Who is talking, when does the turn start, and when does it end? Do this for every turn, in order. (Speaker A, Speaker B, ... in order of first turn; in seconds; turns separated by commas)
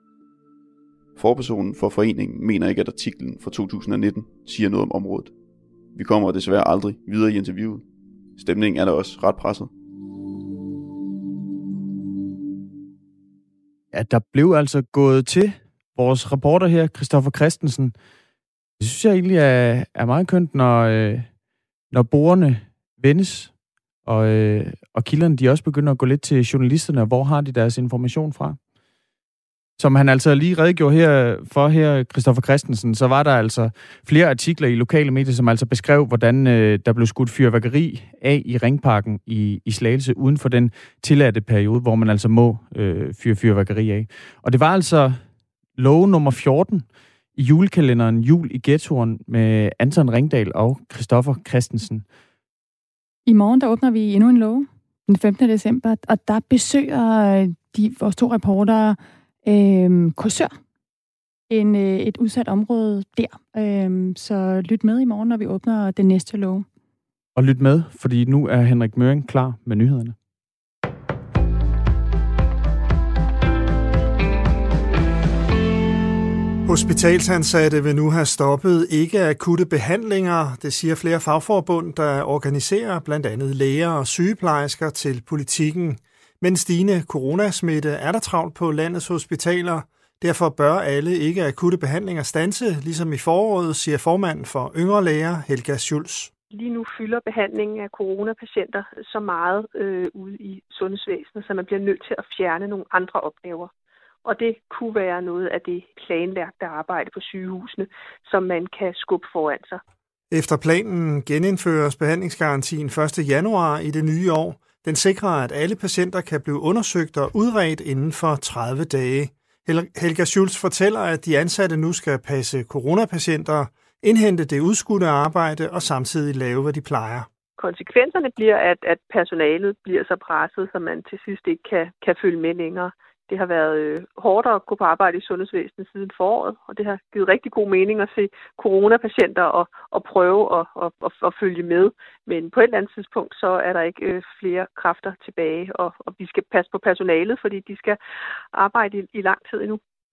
Speaker A: 1.2-5.3, Speaker A: 5.9-7.8, Speaker A: 8.4-9.7, Speaker B: 13.9-17.9, Speaker B: 18.8-21.3, Speaker B: 21.9-23.5, Speaker B: 24.1-28.6, Speaker B: 29.8-45.2, Speaker B: 45.8-46.9, Speaker B: 47.4-52.0, Speaker C: 53.3-60.5, Speaker C: 61.5-66.7, Speaker B: 67.4-70.2, Speaker D: 76.7-96.3, Speaker E: 96.5-103.7, Speaker E: 104.2-109.8, Speaker D: 110.3-127.3, Speaker E: 127.6-148.0, Speaker E: 148.5-149.8